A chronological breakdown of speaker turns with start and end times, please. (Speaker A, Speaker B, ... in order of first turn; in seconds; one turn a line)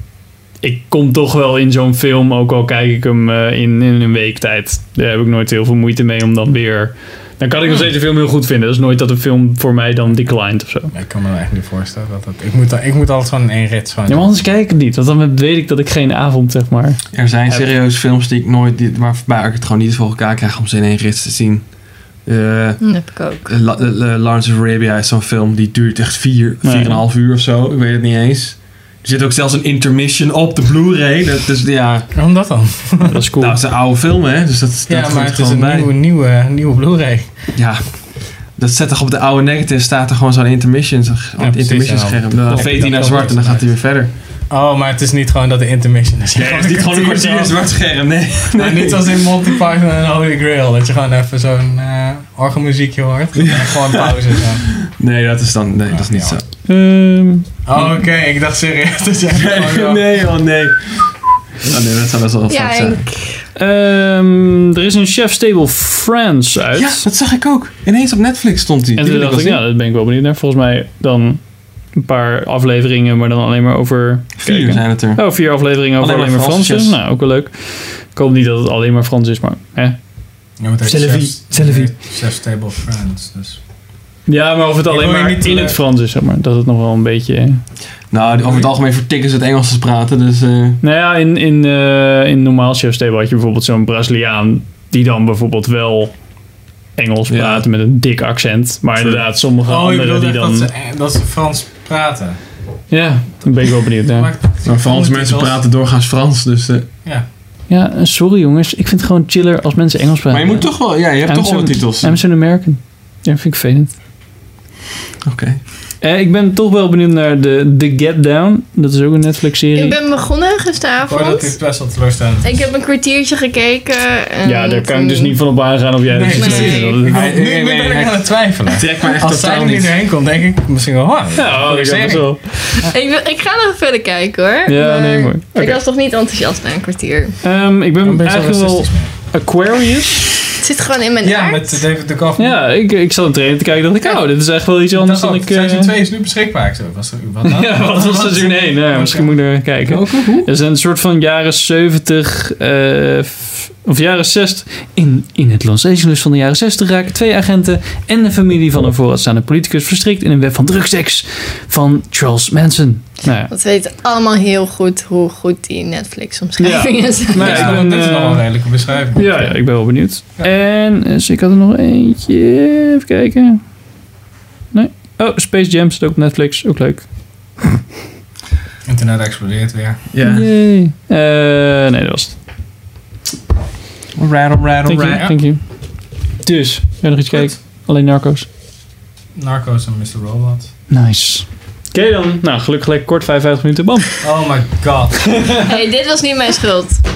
Speaker A: 0.6-10.9
Speaker B: 10.9-14.3
Speaker A: 14.1-17.7
Speaker C: 17.1-32.1
Speaker D: 22.8-23.5
Speaker A: 26.6-27.0
Speaker B: 32.1-33.2
Speaker A: 33.1-33.6
Speaker C: 33.4-35.9
Speaker B: 34.9-37.5
Speaker C: 37.5-44.1
Speaker B: 41.4-43.7
Speaker A: 42.5-43.3
Speaker B: 44.5-47.5
Speaker C: 46.3-49.5
Speaker B: 48.5-54.7
Speaker C: 53.4-56.4
Speaker B: 55.9-56.4
Speaker A: 56.6-57.5
Speaker B: 57.7-60.2
Speaker C: 59.4-63.0
Speaker D: 62.5-63.5
Speaker A: 63.5-67.1
Speaker C: 66.7-69.6
Speaker A: 69.0-80.2
Speaker C: 74.4-77.0
Speaker B: 80.6-83.6
Speaker A: 80.8-81.9
Speaker A: 84.3-87.6
Speaker B: 84.9-85.8
Speaker C: 88.1-90.8
Speaker B: 88.3-88.7
Speaker A: 90.8-96.3
Speaker A: 97.0-100.7
Speaker C: 97.3-97.7
Speaker C: 99.0-99.3
Speaker B: 99.6-102.4
Speaker A: 102.9-104.3
Speaker B: 104.1-105.6
Speaker C: 104.6-106.9
Speaker A: 107.7-113.9
Speaker C: 110.3-112.2
Speaker C: 115.2-115.7
Speaker A: 116.0-120.0
Speaker D: 119.8-121.5
Speaker B: 121.0-122.6
Speaker D: 122.4-125.4
Speaker A: 124.4-127.2
Speaker B: 126.1-132.9
Speaker D: 126.3-127.0
Speaker C: 127.1-130.0
Speaker A: 131.3-132.8
Speaker D: 132.8-137.4
Speaker A: 134.7-135.8
Speaker A: 137.4-140.4
Speaker B: 138.0-139.1
Speaker D: 140.6-141.8
Speaker B: 141.2-142.7
Speaker A: 142.4-145.9
Speaker B: 144.0-150.1
Speaker A: 147.4-163.5
Speaker C: 149.9-150.5
Speaker D: 163.5-167.7
Speaker A: 166.6-168.6
Speaker B: 167.3-170.5
Speaker A: 169.2-173.8
Speaker A: 174.7-177.1
Speaker B: 178.8-180.0
Speaker C: 180.1-180.5
Speaker A: 180.2-182.4
Speaker C: 184.2-185.3
Speaker A: 184.8-185.6
Speaker B: 185.1-185.4
Speaker A: 186.4-188.5
Speaker B: 189.4-190.7
Speaker A: 190.9-194.2
Speaker B: 194.2-195.6
Speaker D: 195.7-197.0